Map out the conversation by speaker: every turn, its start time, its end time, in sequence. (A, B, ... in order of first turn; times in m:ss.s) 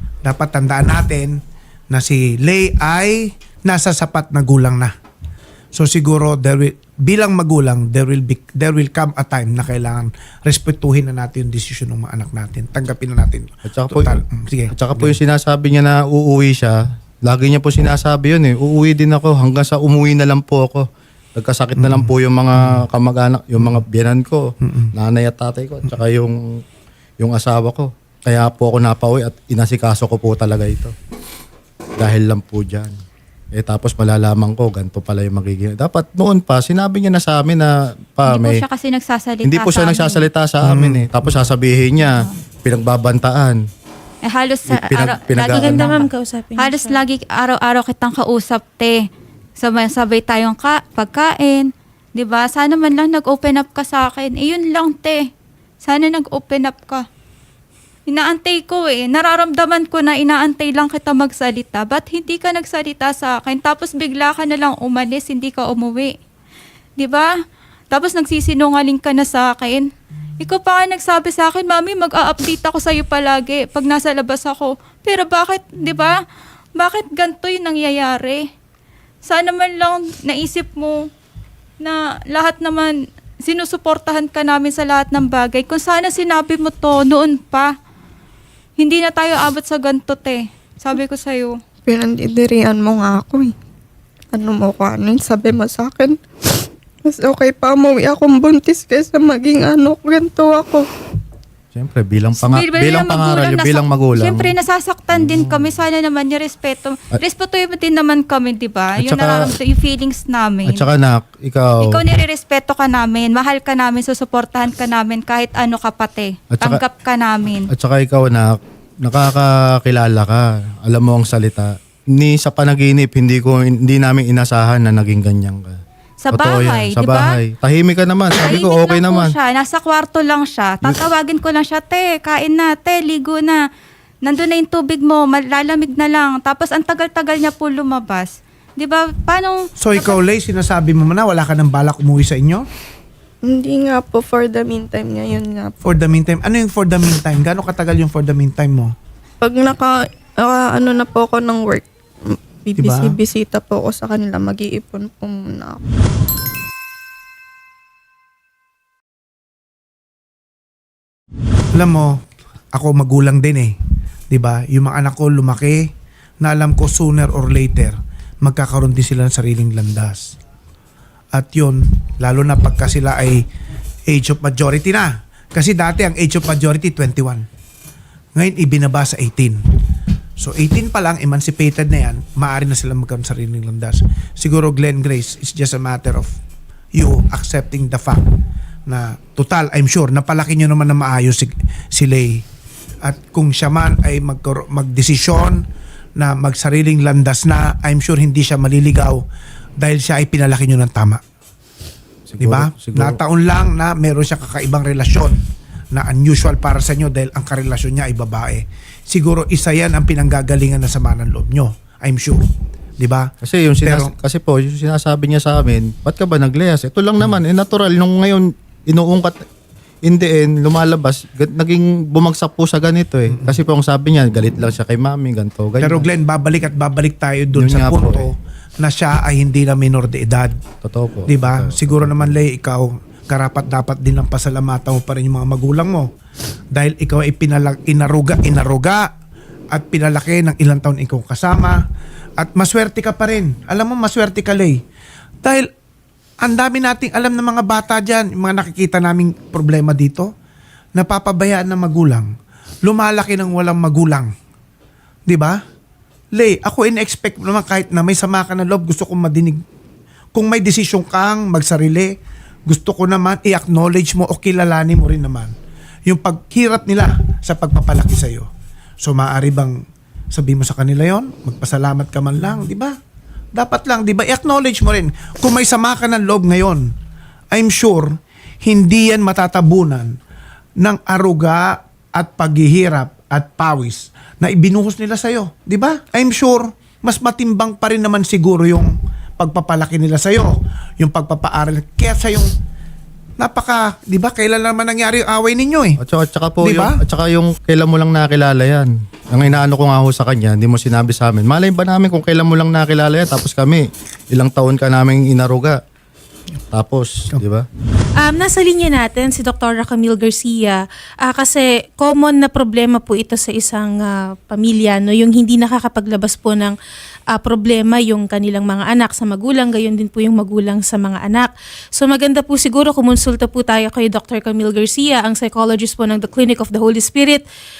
0:00.2-0:04.9 A
0:05.7-0:15.2 A
0:13.6-0:26.4 B
0:21.8-0:22.8 A
0:24.6-0:24.9 A
0:27.2-0:30.9 B
0:32.0-0:32.9 B
0:33.5-0:38.6 B
0:38.3-0:40.3 C
0:39.4-0:43.6 B
0:40.6-0:41.3 A
0:44.2-0:55.3 C
0:44.7-0:46.0 B
0:45.5-0:47.0 D
0:55.8-0:57.0 C
0:58.1-1:06.2 C
1:07.0-1:07.3 C
1:07.9-1:16.2 C
1:16.8-1:18.5 C
1:19.2-1:21.1 C
1:21.8-1:27.7 C
1:28.8-1:31.6 C
1:31.9-1:33.5 E
1:34.3-1:36.2 E
1:37.0-1:40.9 E
1:41.7-1:44.5 B
1:42.4-1:50.8 C
1:45.1-1:45.8 B
1:49.0-1:49.5 B
1:50.6-1:52.0 B
1:51.8-1:57.7 C
1:56.5-1:56.8 B
1:57.7-2:05.8 B
2:06.2-2:07.4 C
2:06.3-2:09.3 B
2:08.4-2:13.6 C
2:14.2-2:20.2 C
2:19.8-2:22.6 A
2:23.4-2:25.8 E
2:25.8-2:28.9 A
2:29.4-2:35.8 E
2:32.8-2:33.2 A
2:41.7-2:43.7 A
2:44.3-2:45.9 A
2:46.4-2:50.4 A
2:51.3-2:53.4 A
2:54.1-2:57.4 A
2:58.3-2:59.6 A
3:00.4-3:06.4 A
3:06.9-3:08.3 A
3:08.9-3:12.4 A
3:13.0-3:15.6 A
3:16.2-3:19.2 A
3:19.8-3:21.2 A
3:22.3-3:23.2 B
3:22.4-3:25.4 A
3:25.9-3:32.4 A
3:33.0-3:33.3 A
3:33.4-3:39.4 B
3:33.8-3:34.1 A
3:40.0-3:46.1 B
3:43.3-3:43.6 A
3:45.8-3:50.6 A
3:47.5-3:48.3 B
3:50.8-3:52.4 B
3:51.3-3:56.1 A
3:56.7-3:59.1 A
3:59.7-4:01.8 A
4:02.4-4:04.8 A
4:05.4-4:05.7 A
4:06.4-4:10.3 A
4:11.0-4:14.3 A
4:15.3-4:15.6 A
4:16.3-4:19.6 A
4:20.3-4:22.1 A
4:22.7-4:25.5 A
4:26.1-4:28.5 A
4:29.0-4:32.9 A
4:33.5-4:36.9 A
4:37.5-4:40.2 A
4:40.8-4:52.5 A
4:53.4-4:56.0 A
4:56.0-5:05.8 B
4:56.6-4:57.0 A
5:06.7-5:07.7 B
5:08.2-5:16.7 D
5:17.3-5:27.4 D